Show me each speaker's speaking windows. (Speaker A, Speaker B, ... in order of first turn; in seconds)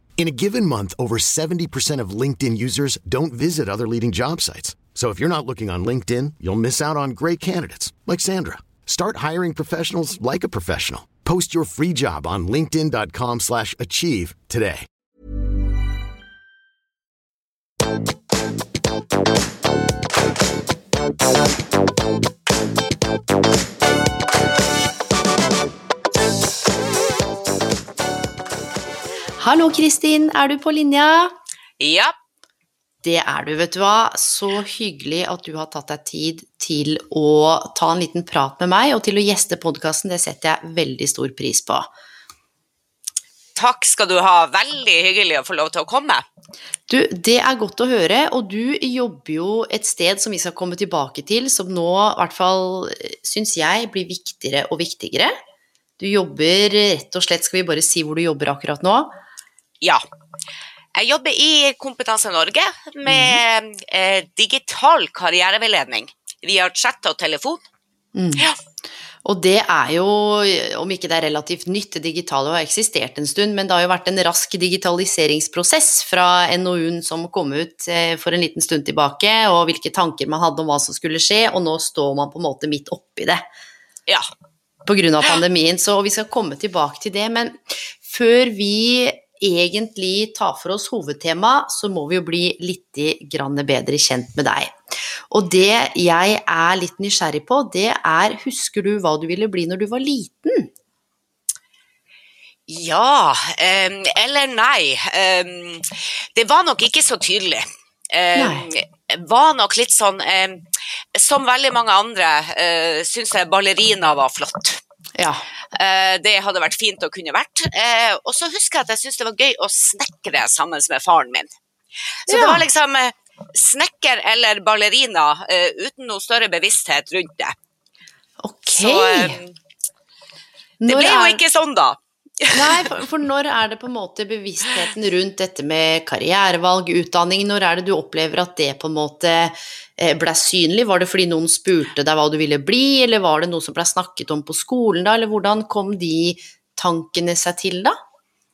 Speaker A: 0.2-14.9
Speaker B: 29.4-31.3, 33.0-41.9, 46.9-55.4, 56.0-59.1, 63.0-63.4, 68.1-68.5, 69.2-83.4, 84.8-94.8, 95.3-100.7, 108.3-108.7, 115.2-115.5, 122.3-122.7, 128.4-129.4, 130.8-131.4, 132.5-147.9
Speaker C: 31.8-32.1, 43.5-46.2, 60.9-67.6, 102.7-114.8, 115.7-121.5, 122.2-127.5, 128.7-129.5, 130.9-132.9